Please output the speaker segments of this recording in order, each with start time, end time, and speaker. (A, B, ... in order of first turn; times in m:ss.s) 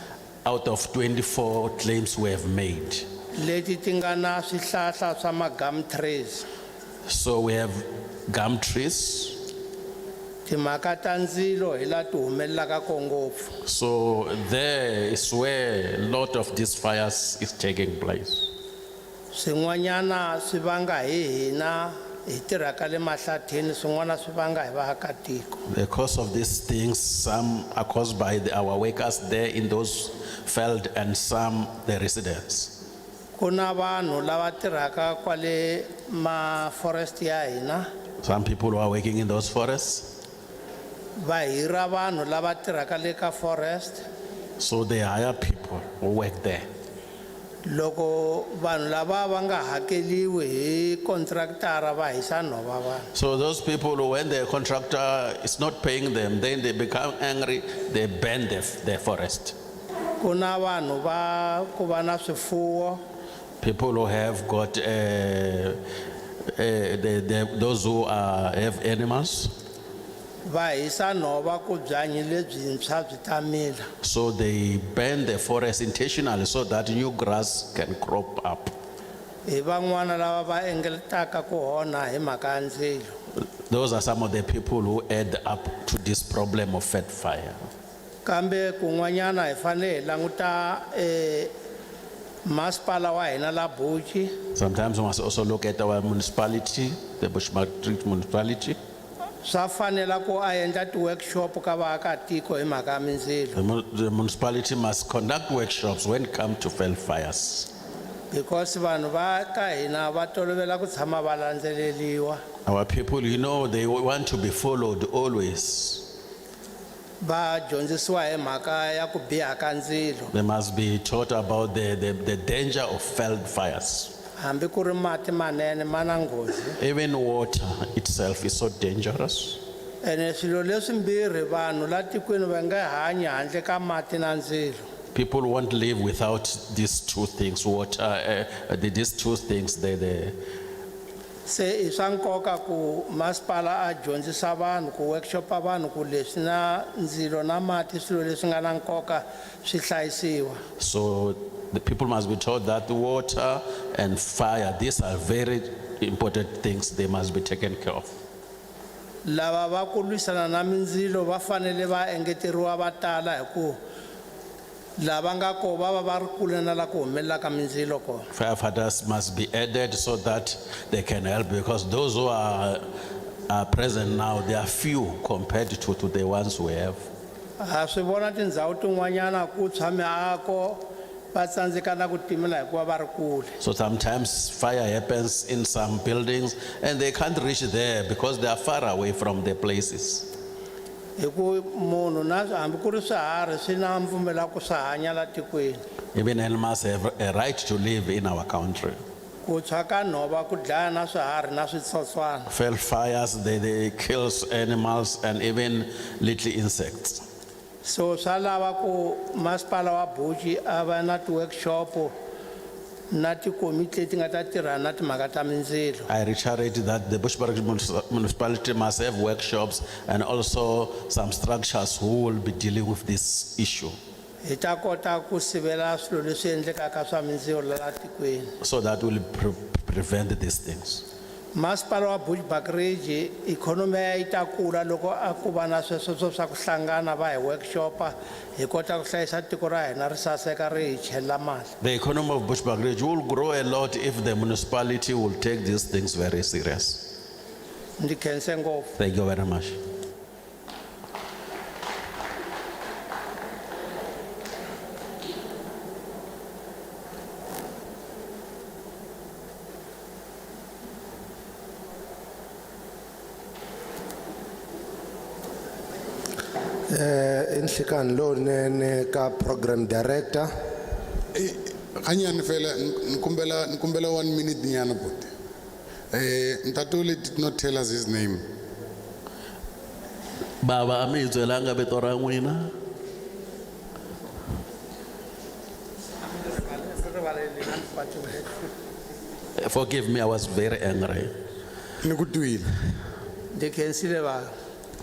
0:00.4-0:03.0 A
0:03.4-0:06.4 B
0:07.0-0:09.4 A
0:10.4-0:13.5 B
0:13.6-0:18.5 A
0:19.3-0:25.6 B
0:25.6-0:32.7 A
0:33.4-0:37.9 B
0:38.2-0:40.1 A
0:41.2-0:44.0 B
0:44.6-0:46.7 A
0:47.6-0:53.1 B
0:53.1-0:59.5 A
1:00.2-1:03.0 B
1:03.6-1:05.8 A
1:06.5-1:09.5 A
1:10.4-1:13.9 B
1:14.0-1:18.7 A
1:19.5-1:23.1 B
1:23.7-1:27.6 A
1:28.2-1:31.5 B
1:32.4-1:34.4 B
1:34.5-1:38.8 A
1:39.4-1:43.6 B
1:43.5-1:47.7 A
1:48.3-1:52.4 B
1:52.6-1:56.1 A
1:57.2-2:00.3 B
2:00.3-2:04.1 A
2:04.4-2:06.8 B
2:06.8-2:09.6 A
2:10.0-2:14.8 B
2:15.1-2:20.3 A
2:21.4-2:30.6 B
2:30.8-2:38.1 A
2:39.2-2:43.8 B
2:45.0-2:48.3 B
2:48.3-2:52.8 A
2:53.5-2:57.1 A
2:57.6-3:03.6 B
3:03.6-3:10.3 A
3:11.2-3:15.8 B
3:16.1-3:19.0 A
3:19.4-3:22.5 B
3:22.5-3:27.2 A
3:27.8-3:32.1 B
3:33.1-3:36.1 B
3:36.1-3:43.9 A
3:44.4-3:48.5 B
3:48.6-3:51.0 A
3:51.5-4:01.7 B
4:01.8-4:07.1 A
4:08.0-4:08.9 B
4:09.0-4:09.8 A
4:26.9-4:30.5 C
4:31.3-4:35.3 D
4:36.1-4:38.4 D
4:40.6-4:42.7 A
4:46.4-4:48.6 B
4:49.6-4:51.3 A
4:52.0-4:52.7 D
4:53.5-4:54.5 B